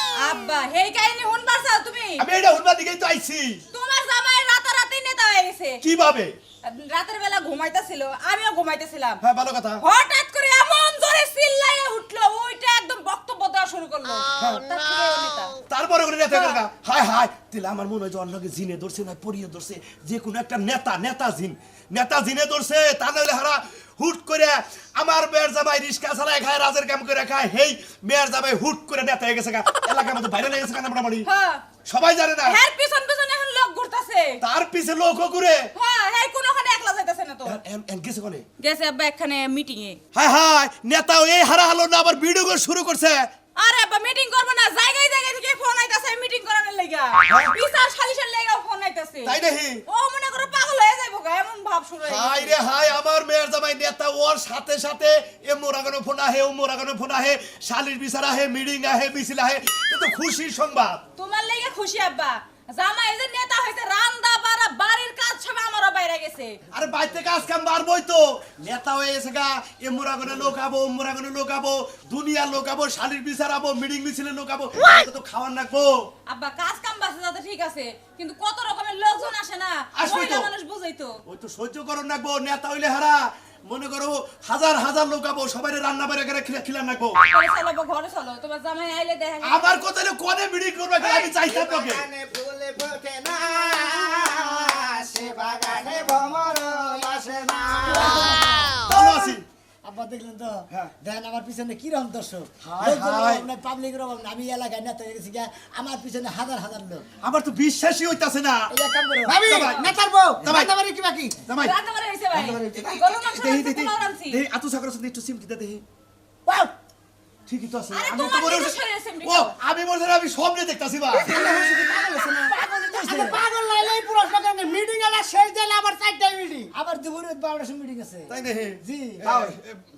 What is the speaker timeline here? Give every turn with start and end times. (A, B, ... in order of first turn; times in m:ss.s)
0:00.2-0:02.3 A
0:02.2-0:03.6 B
0:03.7-0:05.8 A
0:05.8-0:06.3 B
0:06.6-0:09.2 A
0:09.2-0:09.8 B
0:09.8-0:15.5 A
0:15.7-0:31.3 B
0:16.3-0:16.6 A
0:31.3-0:31.7 A
0:31.9-0:32.6 B
0:32.4-0:34.4 A
0:34.4-0:35.7 B
0:35.8-0:37.6 A
0:37.4-0:38.4 B
0:38.6-0:40.0 A
0:40.1-0:43.3 B
0:43.6-0:52.6 A
0:49.2-0:49.8 B
0:52.0-1:01.0 B
1:01.2-1:06.6 A
1:06.7-1:15.9 B
1:16.3-1:21.2 A
1:20.0-1:20.5 B
1:21.3-1:27.2 B
1:27.2-1:29.7 A
1:29.4-1:32.0 B
1:31.0-1:38.4 C
1:37.8-1:38.8 D
1:38.9-1:39.4 B
1:39.8-1:47.1 D
1:42.6-1:43.5 B
1:47.2-1:48.7 B
1:48.7-1:49.6 D
1:49.3-1:51.4 E
1:49.5-1:49.9 B
1:50.4-1:50.7 B
1:51.5-1:51.8 B
1:51.6-1:54.4 A
1:52.3-1:53.2 C
1:53.2-1:55.8 B
1:57.5-2:01.3 B
1:57.9-1:59.6 A
2:01.2-2:06.7 E
2:02.5-2:03.4 D
2:06.7-2:09.4 D
2:08.3-2:08.8 B
2:09.2-2:09.6 C
2:09.4-2:09.8 B